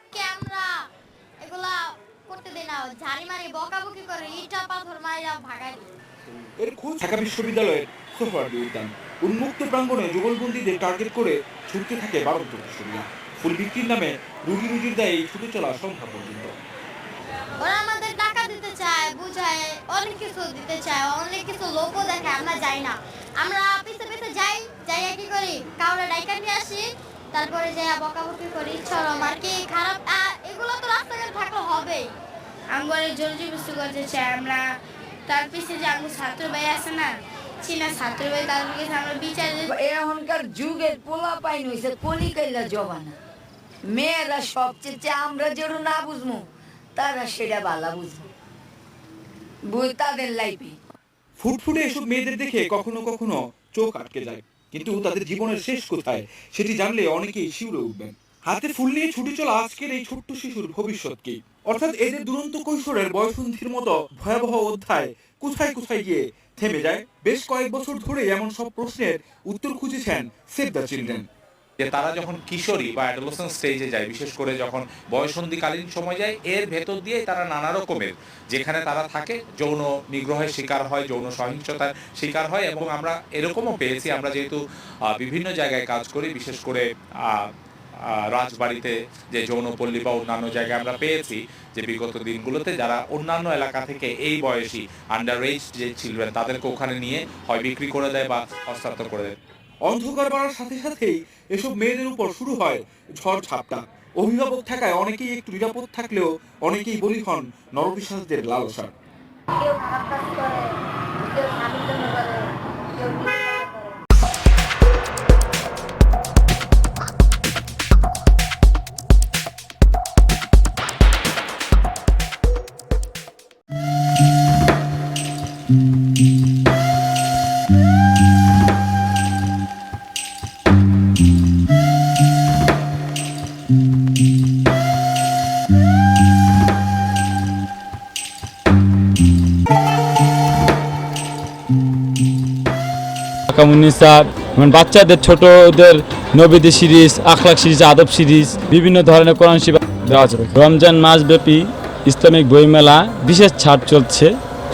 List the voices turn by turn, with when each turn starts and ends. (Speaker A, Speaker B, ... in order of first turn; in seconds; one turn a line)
Speaker A: 0.1-0.7
Speaker A: 1.4-5.9
Speaker B: 6.6-16.5
Speaker A: 17.6-32.1
Speaker C: 32.7-34.6
Speaker C: 35.3-37.1
Speaker C: 37.6-39.7
Speaker D: 39.7-43.1
Speaker D: 43.9-48.2
Speaker D: 49.7-50.8
Speaker B: 51.4-71.2
Speaker E: 71.8-84.6
Speaker E: 85.1-87.5
Speaker E: 88.1-99.3
Speaker B: 99.8-108.9
Speaker D: 109.7-110.6
Speaker D: 111.3-112.4
Speaker D: 113.0-113.5
Speaker F: 143.5-154.3